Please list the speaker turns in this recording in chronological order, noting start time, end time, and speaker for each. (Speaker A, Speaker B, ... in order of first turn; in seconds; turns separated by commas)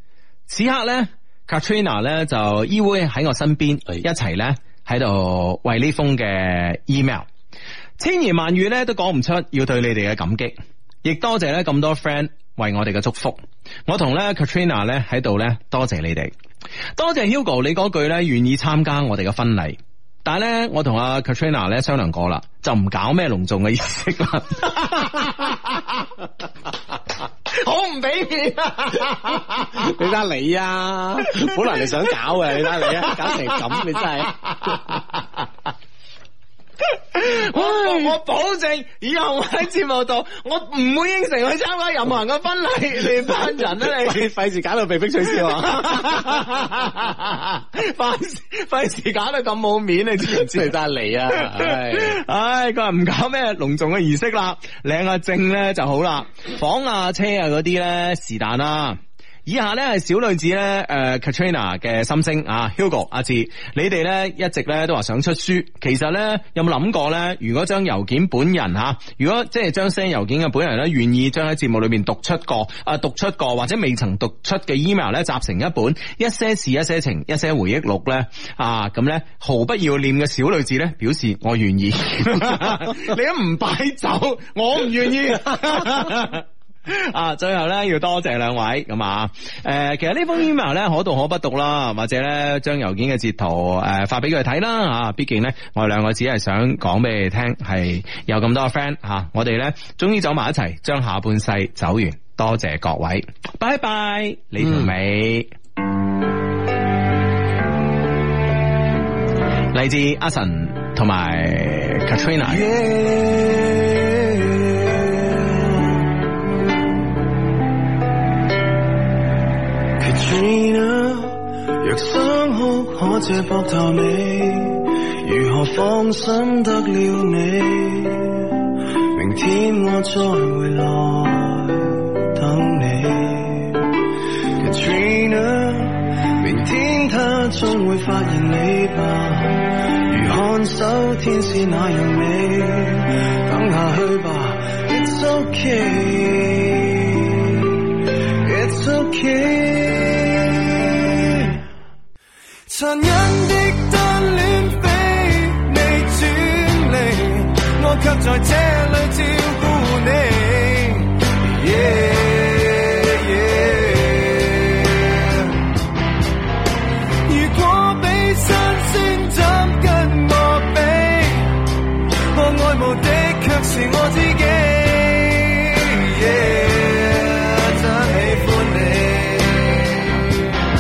Speaker A: 0.5-7.3, Speaker A: 8.0-16.3, Speaker A: 17.0-26.1, Speaker A: 27.5-29.9, Speaker B: 29.8-34.3, Speaker A: 31.4-31.9, Speaker A: 32.5-35.2, Speaker A: 36.9-44.3, Speaker B: 37.6-38.1, Speaker B: 43.8-46.3, Speaker A: 45.3-50.8, Speaker B: 50.2-52.2, Speaker A: 51.3-105.5, Speaker A: 109.7-112.7, Speaker C: 112.5-116.2, Speaker C: 120.0-151.6, Speaker C: 152.7-165.7, Speaker C: 167.3-171.6, Speaker C: 172.3-180.6